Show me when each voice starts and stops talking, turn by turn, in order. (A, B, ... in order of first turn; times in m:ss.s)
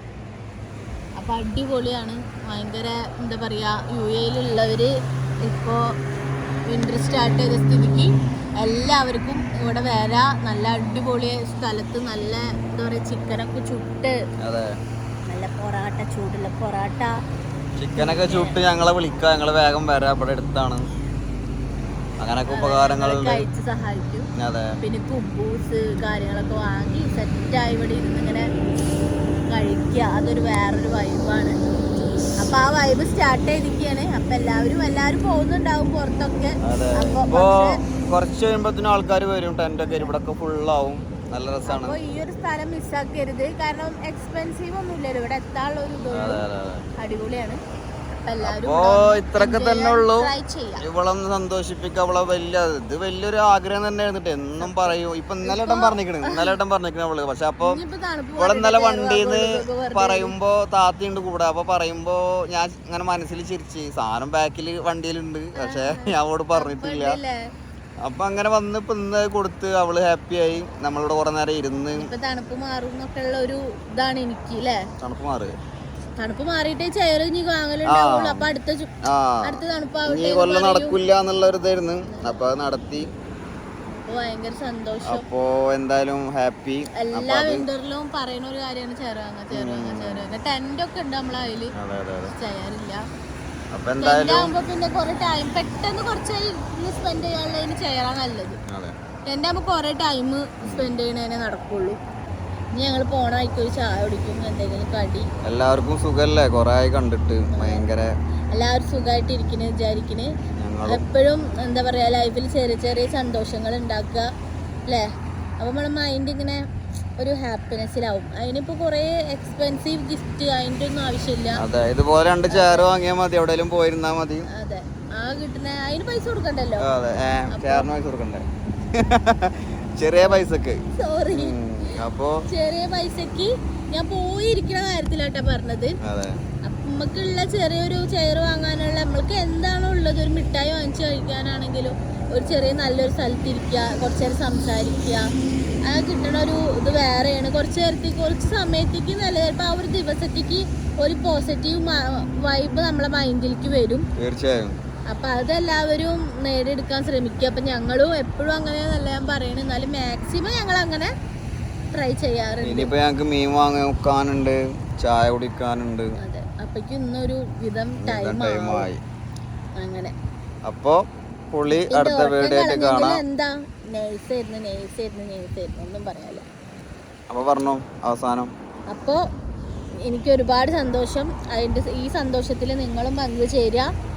0:01.2-0:04.9 A
0:05.4-0:05.9 A
0:06.7-0:14.1 A
0:14.4-0:14.7 B
0:15.3-0:17.1 A
0:17.8-0:20.8 B
0:18.0-0:18.6 A
0:22.2-0:23.4 B
0:22.5-0:24.3 A
0:24.4-0:24.8 B
0:24.8-0:28.5 A
0:29.5-0:31.6 A
0:32.4-0:37.8 A
0:36.6-0:42.0 B
0:41.6-0:46.4 A
0:46.1-0:46.9 B
0:47.0-0:47.6 A
0:48.2-0:50.8 A
0:48.4-0:57.8 B
0:54.6-0:56.6 A
0:57.6-1:00.3 A
0:58.4-1:07.2 B
1:05.6-1:07.4 A
1:08.0-1:12.1 B
1:12.0-1:14.8 A
1:15.0-1:15.5 B
1:16.2-1:18.9 A
1:17.9-1:18.5 B
1:19.0-1:23.1 B
1:19.4-1:21.0 A
1:22.1-1:22.4 A
1:23.9-1:25.2 A
1:25.0-1:27.6 B
1:27.0-1:31.7 A
1:29.5-1:30.3 B
1:31.8-1:32.3 B
1:32.3-1:33.0 A
1:33.7-1:34.5 B
1:34.0-1:38.6 A
1:38.7-1:39.0 B
1:39.2-1:42.0 A
1:40.6-1:40.9 B
1:42.7-1:45.3 A
1:45.4-1:48.1 B
1:47.5-1:47.8 A
1:48.5-1:50.3 A
1:50.6-1:51.0 B
1:50.8-1:54.3 A
1:55.6-1:56.6 A
1:57.2-2:01.6 A
2:01.6-2:04.5 B
2:02.5-2:02.9 A
2:04.5-2:06.9 A
2:06.8-2:10.8 B
2:07.5-2:07.9 A
2:11.0-2:11.9 A
2:11.3-2:12.4 B
2:12.5-2:16.0 A
2:16.0-2:16.4 B
2:16.6-2:25.2 A
2:25.9-2:34.0 A
2:34.2-2:34.7 B
2:35.1-2:41.1 A
2:41.9-2:42.9 A
2:42.6-2:46.1 B
2:46.2-2:48.9 A
2:48.0-2:49.0 B
2:49.8-2:50.1 A
2:50.6-2:53.2 B
2:51.9-2:56.4 A
2:57.3-2:58.5 B
2:58.9-2:59.2 A
3:00.0-3:03.9 A